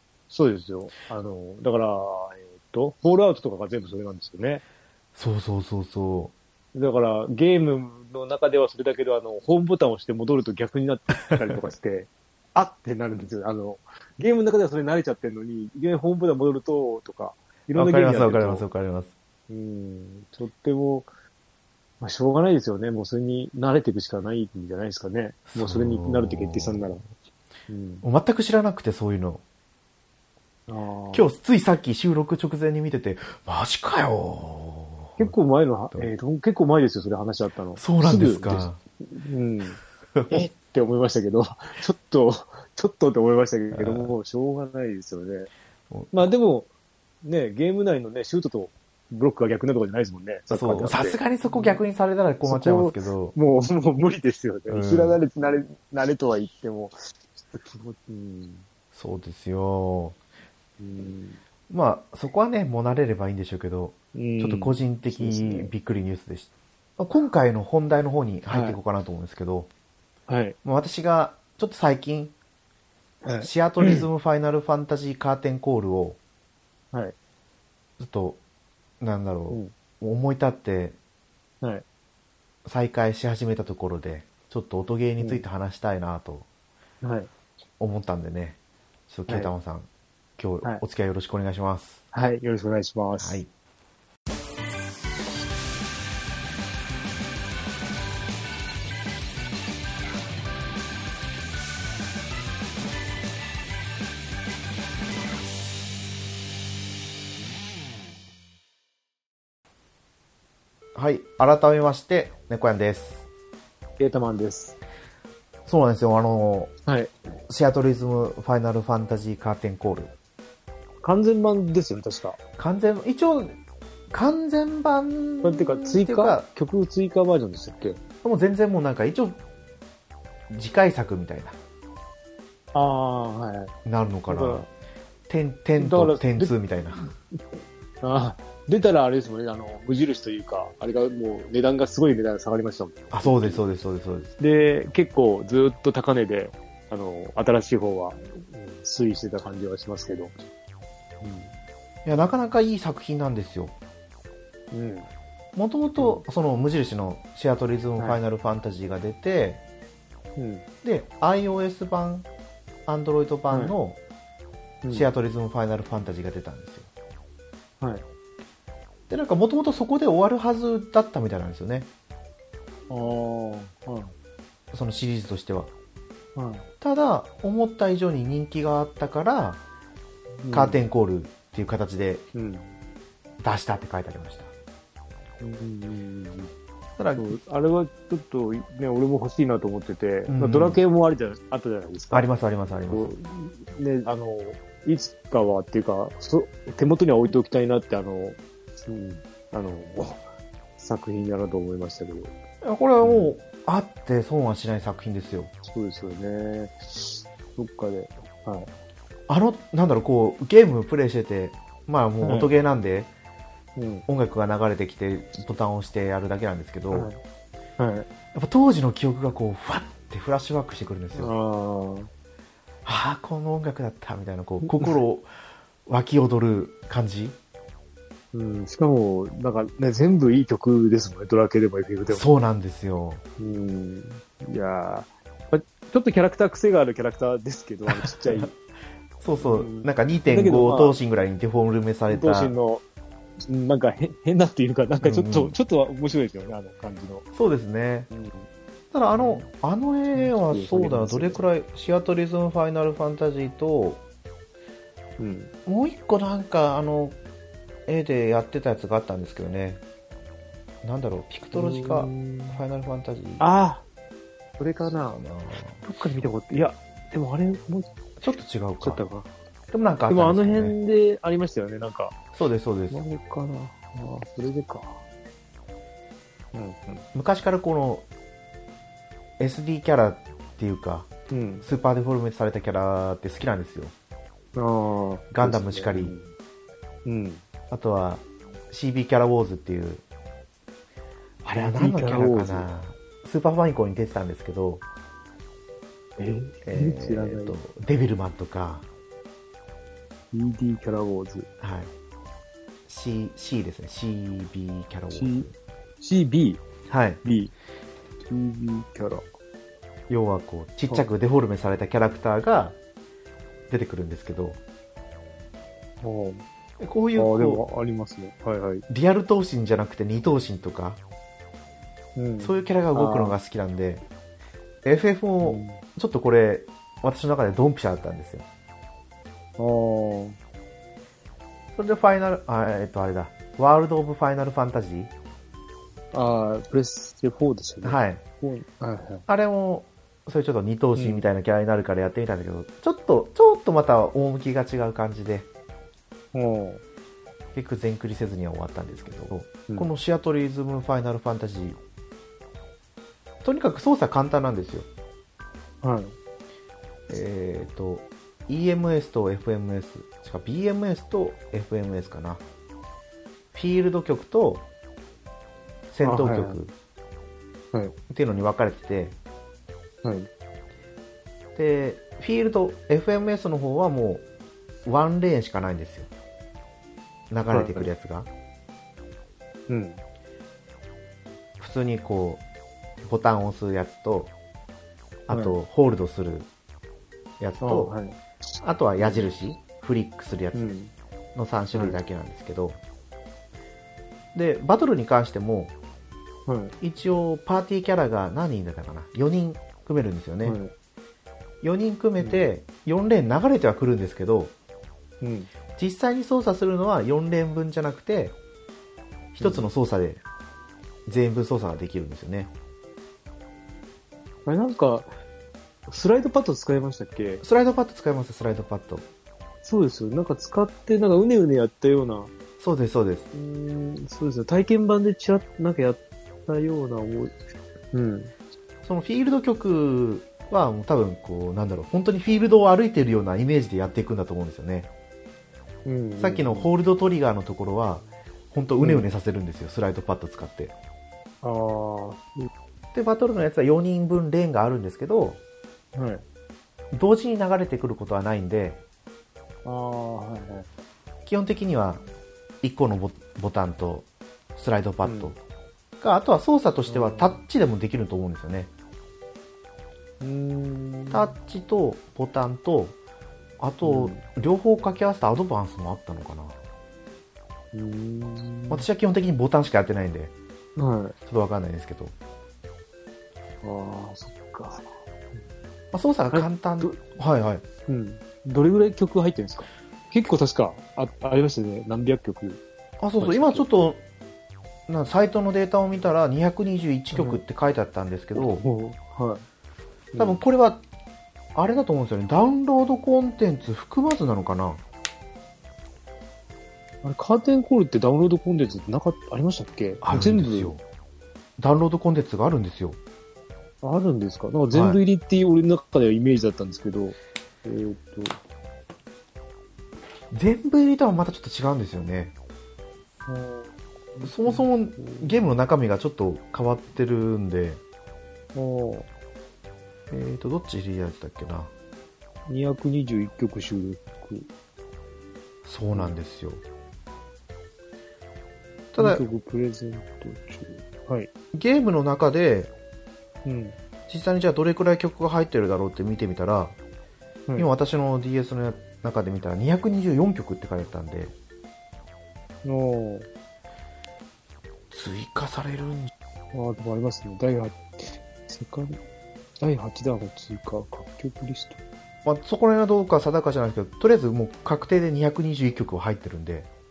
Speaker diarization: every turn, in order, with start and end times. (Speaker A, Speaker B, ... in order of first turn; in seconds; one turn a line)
Speaker A: 0.3-4.6
Speaker B: 5.2-6.3
Speaker A: 6.7-18.7
Speaker B: 17.8-19.1
Speaker A: 19.5-21.1
Speaker A: 22.0-27.0
Speaker B: 25.5-27.1
Speaker A: 27.7-28.1
Speaker B: 28.0-29.4
Speaker A: 30.7-31.3
Speaker B: 31.1-35.3
Speaker A: 35.2-39.8
Speaker B: 37.8-38.8
Speaker B: 40.1-40.5
Speaker A: 40.3-45.5
Speaker B: 43.7-44.1
Speaker B: 45.9-46.3
Speaker A: 46.1-46.7
Speaker A: 47.2-51.8
Speaker B: 50.5-53.4
Speaker A: 52.5-58.7
Speaker B: 54.7-55.2
Speaker B: 58.9-60.2
Speaker A: 60.8-61.4
Speaker B: 61.7-69.7
Speaker A: 64.1-65.7
Speaker A: 68.5-68.8
Speaker A: 70.3-70.6
Speaker B: 70.6-72.3
Speaker A: 73.2-74.1
Speaker B: 73.4-76.2
Speaker B: 78.0-78.4
Speaker B: 79.0-81.0
Speaker B: 82.7-86.5
Speaker A: 85.2-85.5
Speaker A: 87.0-87.3
Speaker B: 87.8-88.6
Speaker B: 89.1-92.0
Speaker A: 92.1-93.4
Speaker B: 93.2-93.5
Speaker B: 111.0-113.2
Speaker A: 114.0-114.8
Speaker B: 115.7-116.7
Speaker A: 116.9-117.1
Speaker B: 117.5-120.1
Speaker A: 121.0-122.4
Speaker B: 122.6-123.6
Speaker B: 124.1-126.5
Speaker A: 125.4-128.0
Speaker B: 128.2-129.4
Speaker B: 130.5-131.6
Speaker A: 132.7-133.8
Speaker B: 133.8-134.7
Speaker A: 134.3-134.7
Speaker B: 135.3-137.1
Speaker A: 135.8-137.4
Speaker A: 138.0-143.7
Speaker B: 143.1-144.3
Speaker A: 144.4-150.4
Speaker A: 151.2-151.5
Speaker B: 152.1-153.7
Speaker A: 154.7-155.1
Speaker B: 155.6-159.6
Speaker A: 156.0-156.2
Speaker A: 160.4-160.6
Speaker B: 160.8-162.3
Speaker B: 162.9-164.0
Speaker A: 163.5-163.8
Speaker A: 164.8-165.1
Speaker B: 164.9-166.9
Speaker B: 169.1-171.9
Speaker A: 172.9-174.1
Speaker B: 174.7-175.7
Speaker A: 176.3-176.7
Speaker B: 176.8-179.6
Speaker A: 180.4-180.9
Speaker B: 180.5-182.2
Speaker A: 182.3-182.8
Speaker B: 183.4-184.5
Speaker A: 185.4-186.5
Speaker B: 187.0-187.4
Speaker A: 187.2-192.3
Speaker B: 190.3-190.8
Speaker B: 192.1-193.1
Speaker A: 192.9-200.2
Speaker A: 200.8-202.3
Speaker B: 202.6-205.5
Speaker A: 203.0-203.3
Speaker A: 205.7-208.7
Speaker B: 209.3-213.1
Speaker A: 212.2-212.5
Speaker A: 213.8-214.1
Speaker B: 214.1-217.1
Speaker A: 216.9-217.2
Speaker A: 217.8-218.1
Speaker B: 218.3-221.3
Speaker A: 221.2-222.1
Speaker B: 222.8-225.3
Speaker A: 224.7-225.0
Speaker B: 225.9-227.4
Speaker A: 228.3-232.3
Speaker B: 232.1-233.2
Speaker A: 233.4-238.5
Speaker B: 237.9-238.5
Speaker B: 239.2-242.5
Speaker A: 239.4-241.0
Speaker A: 242.1-242.8
Speaker A: 243.4-247.3
Speaker B: 245.0-245.6
Speaker B: 247.3-248.1
Speaker A: 248.1-248.5
Speaker B: 248.9-254.0
Speaker A: 249.1-249.5
Speaker A: 250.1-251.5
Speaker A: 255.2-255.5
Speaker B: 255.7-257.2
Speaker B: 257.9-259.8
Speaker B: 260.8-263.4
Speaker A: 261.5-262.6
Speaker A: 263.4-263.8
Speaker A: 264.6-265.2
Speaker B: 265.1-265.9
Speaker A: 265.8-267.9
Speaker B: 268.2-269.0
Speaker A: 268.8-269.3
Speaker B: 269.7-270.8
Speaker A: 270.1-272.2
Speaker B: 272.4-273.0
Speaker A: 272.9-275.0
Speaker A: 276.5-277.1
Speaker B: 277.1-278.1
Speaker B: 279.4-281.1
Speaker A: 281.3-281.7
Speaker B: 281.6-283.9
Speaker A: 284.6-286.3
Speaker B: 285.3-286.2
Speaker A: 287.1-287.4
Speaker B: 287.7-290.0
Speaker B: 291.4-294.8
Speaker A: 291.5-292.7
Speaker A: 296.2-297.6
Speaker B: 296.6-298.9
Speaker A: 300.3-301.5
Speaker B: 301.6-301.9
Speaker B: 302.9-305.5
Speaker A: 305.1-305.5
Speaker A: 306.0-306.6
Speaker B: 306.9-307.2
Speaker A: 307.2-307.5
Speaker A: 308.2-309.3
Speaker B: 310.1-312.8
Speaker B: 313.7-314.6
Speaker A: 316.0-316.4
Speaker B: 316.8-317.6
Speaker A: 317.2-318.9
Speaker B: 318.9-321.0
Speaker A: 322.2-323.4
Speaker B: 322.4-324.0
Speaker B: 324.8-328.4
Speaker A: 325.4-325.8
Speaker A: 329.6-330.4
Speaker B: 331.8-335.1
Speaker A: 336.1-339.3
Speaker B: 337.8-338.2
Speaker B: 339.3-345.5
Speaker A: 341.0-341.3
Speaker A: 346.3-346.8
Speaker B: 347.6-351.8
Speaker B: 353.4-354.9
Speaker A: 355.8-356.1
Speaker B: 357.1-362.4
Speaker B: 363.5-364.7
Speaker B: 365.9-366.7
Speaker A: 366.0-366.6
Speaker B: 368.1-369.2
Speaker A: 370.0-370.3
Speaker B: 371.6-374.2
Speaker B: 374.9-376.1
Speaker B: 377.3-378.3
Speaker A: 377.5-377.9
Speaker A: 379.7-380.0
Speaker B: 381.6-382.4
Speaker B: 383.1-384.3
Speaker B: 385.3-386.5
Speaker A: 385.3-385.6
Speaker B: 387.4-388.0
Speaker A: 387.6-388.2
Speaker B: 388.6-390.7
Speaker A: 389.0-389.3
Speaker A: 390.5-390.9
Speaker B: 391.4-392.8
Speaker B: 394.3-395.7
Speaker A: 396.5-396.8
Speaker B: 396.8-400.6
Speaker A: 400.4-400.7
Speaker B: 401.6-404.5
Speaker A: 402.2-402.4
Speaker A: 405.2-405.5
Speaker B: 405.8-408.4
Speaker B: 409.3-410.2
Speaker A: 409.4-409.7
Speaker B: 411.1-412.5
Speaker A: 414.4-415.1
Speaker A: 415.9-417.4
Speaker B: 417.4-419.1
Speaker A: 419.6-422.3
Speaker B: 422.6-423.3
Speaker A: 423.3-427.4
Speaker A: 427.9-428.3
Speaker B: 428.8-434.9
Speaker A: 435.9-436.7
Speaker B: 436.2-440.7
Speaker A: 438.8-439.1
Speaker A: 441.4-442.5
Speaker B: 442.9-445.4
Speaker A: 445.9-446.2
Speaker B: 446.9-448.8
Speaker A: 449.6-450.7
Speaker B: 451.3-452.0
Speaker B: 452.6-455.4
Speaker A: 455.0-455.3
Speaker B: 456.0-458.7
Speaker A: 456.9-457.4
Speaker A: 460.2-461.3
Speaker B: 461.1-463.0
Speaker B: 463.6-466.6
Speaker A: 463.8-464.2
Speaker A: 467.7-468.9
Speaker B: 468.7-470.3
Speaker A: 470.8-471.1
Speaker B: 471.3-472.1
Speaker A: 473.6-475.4
Speaker B: 475.9-477.6
Speaker A: 476.3-477.0
Speaker A: 477.9-482.6
Speaker B: 483.0-484.0
Speaker A: 483.2-483.6
Speaker B: 484.9-488.6
Speaker A: 487.1-487.4
Speaker A: 488.4-489.4
Speaker A: 490.1-490.4
Speaker B: 490.2-490.8
Speaker B: 491.6-494.8
Speaker A: 497.0-500.7
Speaker B: 500.0-500.8
Speaker B: 501.6-503.0
Speaker A: 503.8-508.4
Speaker B: 504.7-505.0
Speaker B: 510.3-512.3
Speaker A: 513.3-515.4
Speaker B: 514.2-517.8
Speaker A: 518.5-519.1
Speaker B: 520.1-521.7
Speaker A: 522.5-524.5
Speaker B: 525.6-526.6
Speaker B: 528.9-529.2
Speaker A: 529.0-531.3
Speaker B: 531.5-532.7
Speaker A: 533.5-533.8
Speaker B: 534.1-536.8
Speaker B: 537.6-541.4
Speaker A: 542.6-543.3
Speaker B: 544.9-546.1
Speaker A: 546.5-549.0
Speaker A: 549.6-551.8
Speaker B: 552.2-556.7